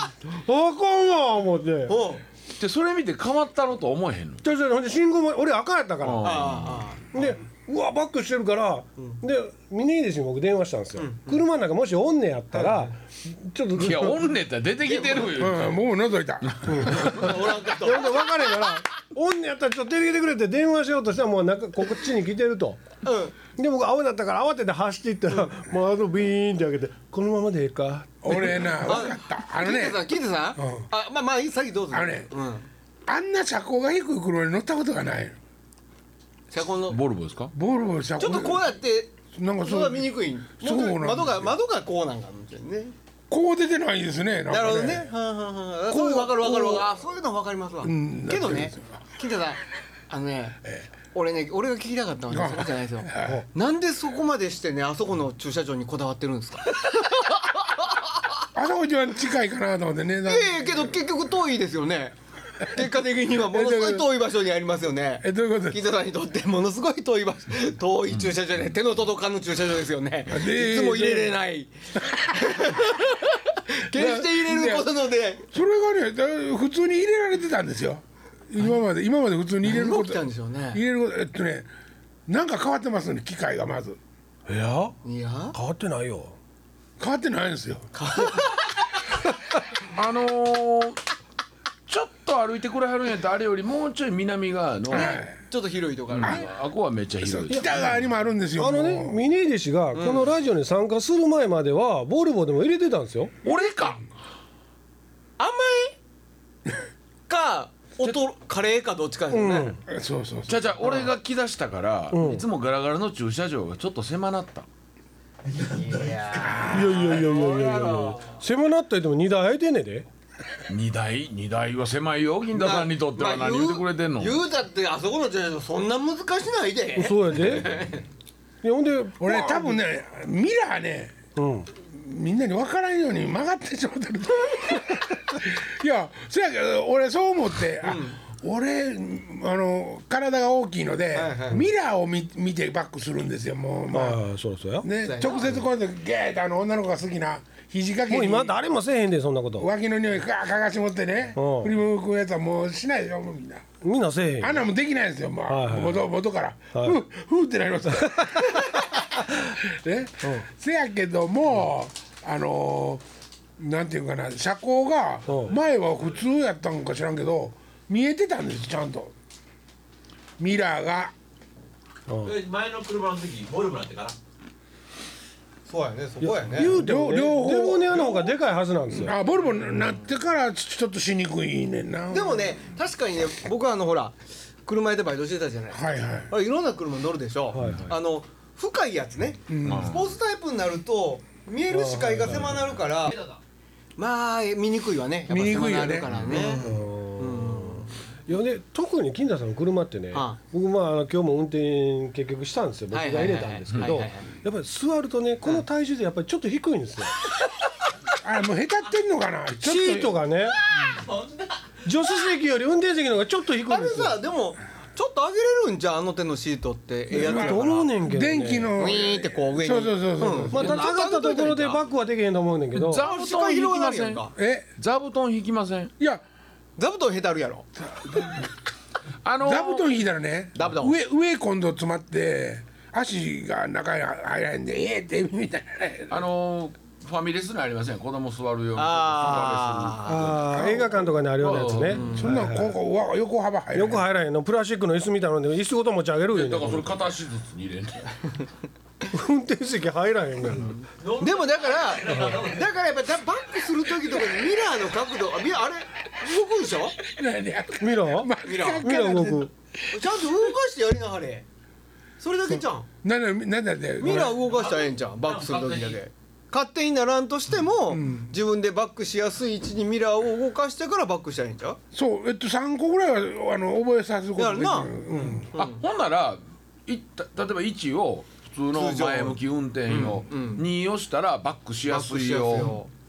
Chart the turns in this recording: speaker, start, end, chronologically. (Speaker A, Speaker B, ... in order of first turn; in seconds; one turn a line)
Speaker A: 0.3-2.0
Speaker B: 1.9-2.2
Speaker C: 2.5-4.4
Speaker A: 4.4-6.4
Speaker C: 6.0-6.9
Speaker B: 6.2-7.0
Speaker A: 7.1-14.2
Speaker B: 11.0-11.3
Speaker C: 13.8-15.8
Speaker B: 14.9-15.3
Speaker D: 15.3-17.3
Speaker C: 16.5-17.2
Speaker A: 16.7-22.8
Speaker B: 17.0-18.4
Speaker B: 23.0-23.3
Speaker A: 23.6-28.8
Speaker D: 28.2-30.9
Speaker B: 28.8-32.7
Speaker D: 31.9-32.3
Speaker D: 33.1-35.4
Speaker B: 36.5-37.0
Speaker C: 36.9-37.5
Speaker D: 37.5-38.6
Speaker B: 38.2-43.0
Speaker D: 39.3-41.6
Speaker D: 43.3-45.1
Speaker B: 44.5-50.6
Speaker D: 45.9-46.9
Speaker D: 47.8-49.0
Speaker B: 51.1-58.3
Speaker D: 52.3-53.5
Speaker D: 58.5-61.0
Speaker B: 60.2-75.4
Speaker D: 63.4-64.2
Speaker D: 65.2-65.8
Speaker D: 70.3-71.3
Speaker D: 73.9-75.0
Speaker D: 75.5-81.7
Speaker B: 79.6-80.8
Speaker D: 82.3-84.0
Speaker A: 84.5-85.0
Speaker B: 85.0-85.6
Speaker A: 85.5-86.4
Speaker D: 87.0-87.9
Speaker B: 88.0-88.7
Speaker C: 89.9-91.0
Speaker C: 91.9-95.3
Speaker B: 94.9-96.5
Speaker D: 94.9-95.3
Speaker C: 96.1-97.7
Speaker D: 97.2-99.2
Speaker A: 98.6-103.3
Speaker B: 100.0-100.3
Speaker C: 103.4-104.1
Speaker B: 105.4-106.0
Speaker B: 107.3-109.8
Speaker A: 109.3-109.8
Speaker D: 109.9-110.7
Speaker C: 110.5-114.7
Speaker B: 110.8-111.1
Speaker A: 112.1-112.4
Speaker B: 115.6-118.4
Speaker D: 116.4-116.9
Speaker A: 116.6-120.1
Speaker C: 120.7-124.5
Speaker B: 122.5-128.0
Speaker A: 127.0-127.7
Speaker C: 127.6-127.8
Speaker A: 128.6-129.8
Speaker D: 129.2-131.2
Speaker A: 131.4-131.7
Speaker D: 131.8-144.2
Speaker B: 137.8-138.2
Speaker B: 141.2-141.7
Speaker A: 143.9-144.9
Speaker D: 144.8-148.6
Speaker B: 145.0-145.6
Speaker A: 148.1-149.7
Speaker D: 149.6-153.7
Speaker A: 151.3-151.7
Speaker A: 153.8-154.6
Speaker D: 154.4-163.0
Speaker A: 155.5-156.0
Speaker D: 163.6-169.1
Speaker A: 165.3-165.5
Speaker D: 170.4-171.1
Speaker A: 172.1-172.3
Speaker E: 172.2-174.2
Speaker B: 175.7-176.8
Speaker A: 176.2-179.2
Speaker D: 176.6-178.4
Speaker D: 178.9-182.5
Speaker B: 182.1-193.2
Speaker D: 185.7-186.3
Speaker A: 187.5-187.9
Speaker D: 189.5-190.0
Speaker C: 189.6-190.2
Speaker A: 191.7-192.6
Speaker E: 193.1-193.4
Speaker B: 194.0-196.7
Speaker D: 195.3-196.8
Speaker C: 196.1-196.5
Speaker A: 196.6-207.2
Speaker B: 197.2-197.9
Speaker B: 202.9-204.3
Speaker D: 208.2-210.2
Speaker A: 209.6-210.6
Speaker E: 210.8-211.6
Speaker A: 211.8-214.2
Speaker B: 213.7-217.9
Speaker A: 217.1-218.8
Speaker D: 217.1-220.8
Speaker B: 218.8-221.8
Speaker A: 220.5-223.1
Speaker C: 220.5-221.0
Speaker C: 222.8-224.2
Speaker B: 223.0-224.3
Speaker D: 224.4-224.7
Speaker C: 224.8-225.9
Speaker B: 226.8-227.7
Speaker D: 227.8-228.5
Speaker C: 229.2-229.9
Speaker D: 229.4-236.2
Speaker B: 230.6-231.0
Speaker C: 236.1-242.3
Speaker B: 238.8-240.2
Speaker A: 240.0-242.7
Speaker B: 241.9-242.3
Speaker D: 242.0-244.1
Speaker A: 243.7-247.1
Speaker C: 246.3-248.3
Speaker A: 249.1-250.8
Speaker E: 251.0-252.8
Speaker B: 251.2-257.0
Speaker D: 257.1-260.4
Speaker A: 257.8-259.5
Speaker B: 258.4-261.4
Speaker B: 262.2-262.9
Speaker D: 262.5-264.4
Speaker B: 264.0-271.8
Speaker E: 264.4-266.0
Speaker D: 267.9-268.4
Speaker D: 271.9-275.5
Speaker B: 274.4-275.8
Speaker C: 275.6-282.8
Speaker B: 278.7-280.7
Speaker B: 281.9-282.9